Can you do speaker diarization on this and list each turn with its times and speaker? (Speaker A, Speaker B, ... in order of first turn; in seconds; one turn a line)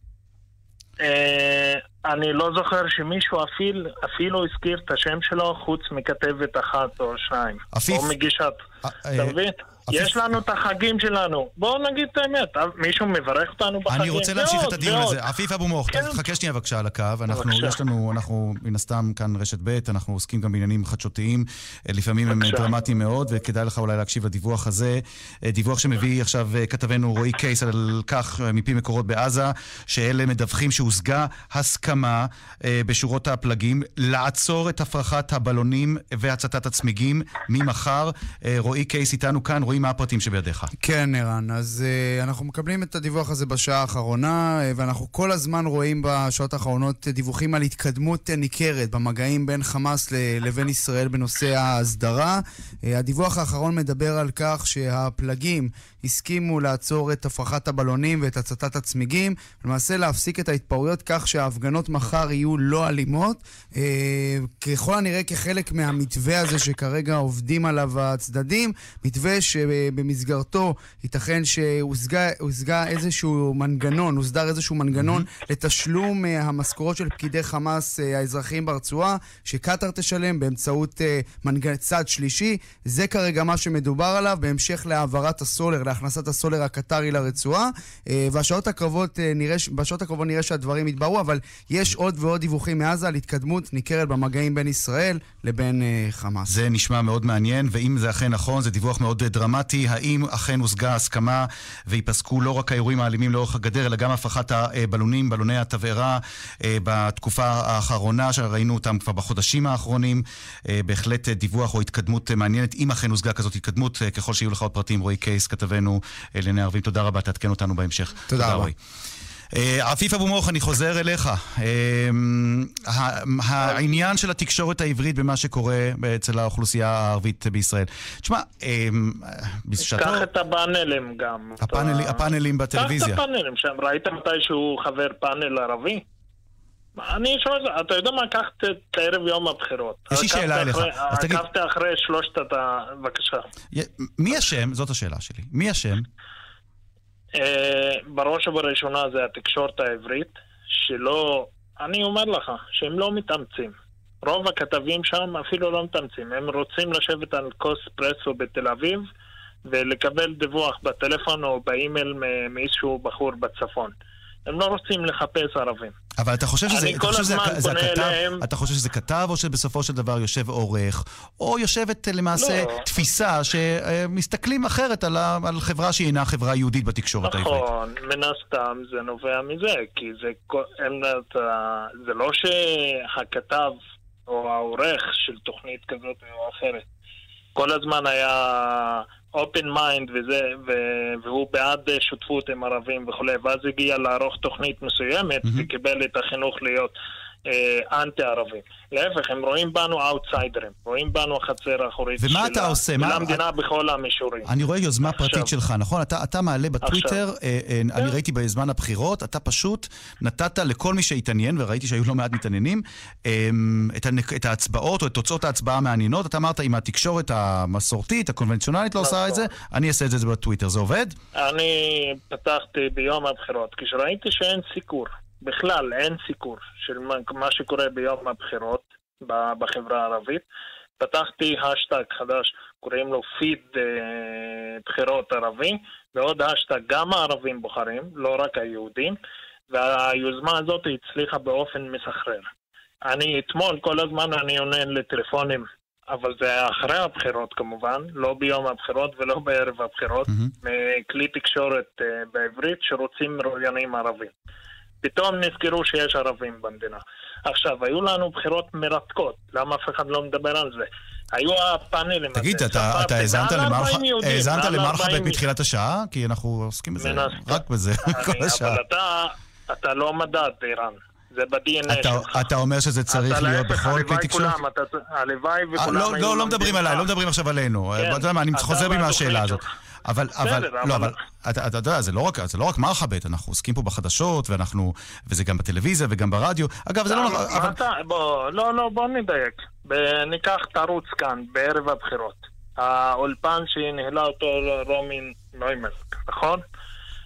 Speaker A: 1.0-8.6
Speaker B: 7.7-8.2
Speaker B: 8.8-9.4
Speaker A: 9.2-15.2
Speaker B: 9.9-10.3
Speaker B: 13.9-40.7
Speaker A: 15.9-16.2
Speaker A: 17.3-17.8
Speaker A: 22.3-22.7
Speaker C: 40.8-96.5
Speaker B: 74.9-75.3
Speaker B: 96.5-118.8
Speaker C: 118.3-118.7
Speaker B: 119.5-130.3
Speaker A: 129.8-136.0
Speaker B: 131.6-133.2
Speaker A: 137.0-143.4
Speaker B: 140.1-141.4
Speaker B: 143.7-146.1
Speaker A: 147.4-153.7
Speaker A: 154.2-159.0
Speaker A: 159.7-163.9
Speaker A: 164.5-165.9
Speaker B: 166.2-177.7
Speaker A: 166.7-168.4
Speaker A: 172.3-172.8
Speaker A: 177.2-183.7
Speaker A: 184.3-186.8
Speaker A: 187.6-196.9
Speaker A: 197.5-204.5
Speaker B: 202.2-203.4
Speaker B: 204.4-221.1
Speaker A: 205.1-205.5
Speaker A: 206.8-207.2
Speaker A: 219.0-219.5
Speaker A: 221.3-230.4
Speaker A: 231.0-239.1
Speaker A: 239.7-242.5
Speaker A: 243.1-254.3
Speaker B: 250.3-250.5
Speaker A: 255.0-265.4
Speaker B: 262.3-268.8
Speaker A: 267.0-272.4
Speaker B: 271.9-274.6
Speaker A: 273.1-277.1
Speaker B: 275.8-287.8
Speaker A: 278.0-279.6
Speaker A: 280.4-281.1
Speaker A: 287.1-296.6